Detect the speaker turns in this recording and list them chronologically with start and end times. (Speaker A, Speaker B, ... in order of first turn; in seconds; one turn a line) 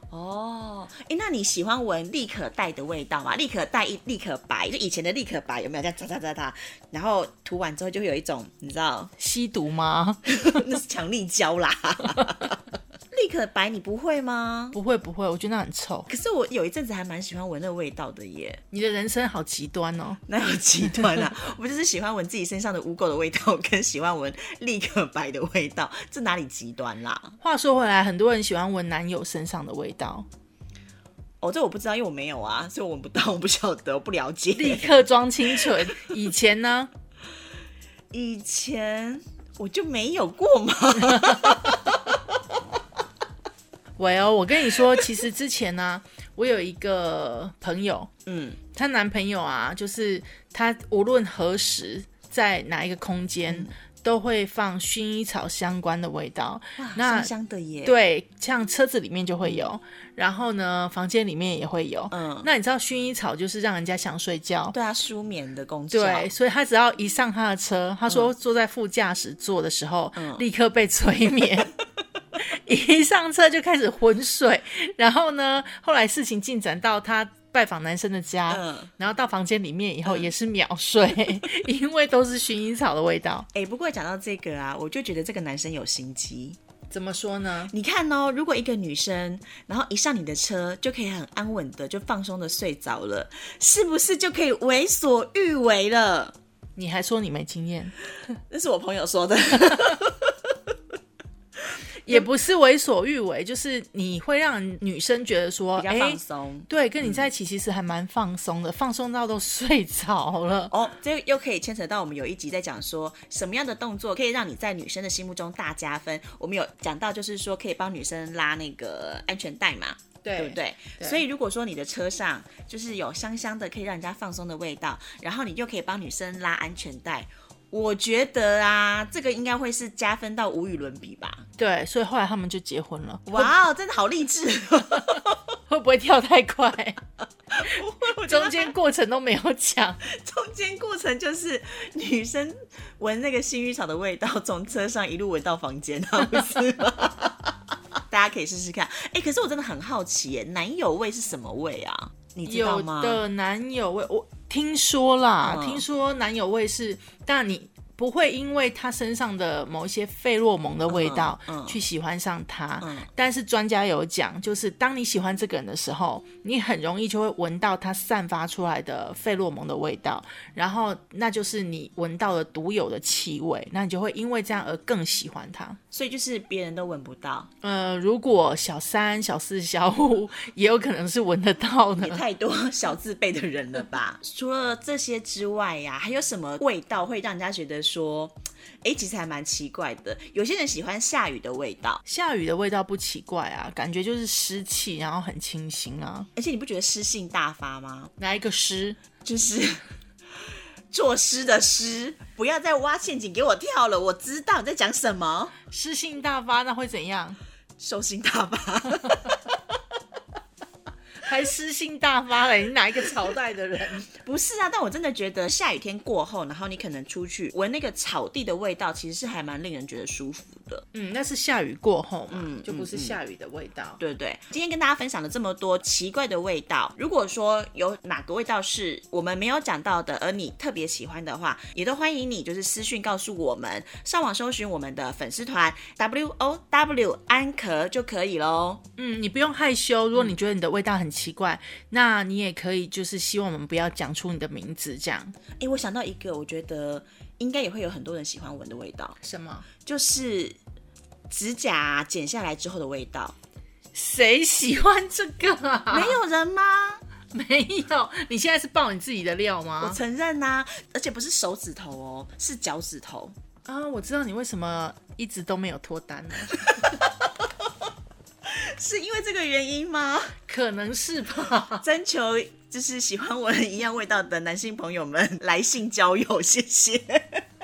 Speaker A: 0.1-9.1
Speaker B: 9.2-10.6
Speaker A: 10.3-12.6
Speaker A: 13.1-14.8
Speaker B: 14.7-16.1
Speaker A: 16.1-18.6
Speaker B: 18.7-20.2
Speaker A: 20.3-27.3
Speaker B: 27.4-30.3
Speaker A: 31.4-34.9
Speaker B: 34.5-36.9
Speaker A: 38.1-42.2
Speaker B: 44.0-48.1
Speaker A: 48.2-48.6
Speaker B: 48.7-57.3
Speaker A: 56.8-58.0
Speaker B: 57.8-64.8
Speaker A: 62.1-62.5
Speaker A: 64.7-66.3
Speaker B: 65.9-71.7
Speaker A: 70.2-70.4
Speaker B: 72.4-83.5
Speaker A: 78.5-78.9
Speaker A: 80.0-80.3
Speaker A: 83.5-86.6
Speaker B: 86.9-87.7
Speaker A: 87.7-96.3
Speaker B: 96.8-97.9
Speaker A: 98.5-100.4
Speaker B: 102.0-110.7
Speaker A: 105.8-107.2
Speaker A: 110.7-131.4
Speaker B: 120.2-121.2
Speaker B: 131.6-133.5
Speaker A: 133.3-135.4
Speaker B: 135.7-137.0
Speaker A: 137.5-138.7
Speaker B: 137.6-140.0
Speaker A: 140.0-147.5
Speaker A: 148.1-153.2
Speaker B: 152.4-175.8
Speaker A: 155.4-155.8
Speaker A: 160.9-161.8
Speaker A: 162.8-163.1
Speaker A: 175.9-177.5
Speaker B: 177.6-182.2
Speaker A: 182.0-192.0
Speaker B: 192.1-196.3
Speaker A: 196.3-198.1
Speaker B: 198.2-199.0
Speaker A: 199.2-199.8
Speaker A: 200.9-205.5
Speaker B: 205.7-207.4
Speaker A: 207.8-209.4
Speaker B: 209.0-209.3
Speaker B: 211.2-214.1
Speaker A: 214.1-220.8
Speaker B: 220.9-224.0
Speaker A: 222.3-223.2
Speaker A: 224.0-238.8
Speaker B: 239.0-245.3
Speaker A: 245.6-249.2
Speaker B: 249.2-249.7
Speaker A: 249.8-250.6
Speaker A: 251.3-253.3
Speaker B: 253.9-256.2
Speaker A: 255.9-257.0
Speaker B: 257.3-260.0
Speaker A: 259.8-263.3
Speaker B: 263.6-266.7
Speaker A: 268.4-270.4
Speaker B: 270.4-271.8
Speaker A: 271.8-277.4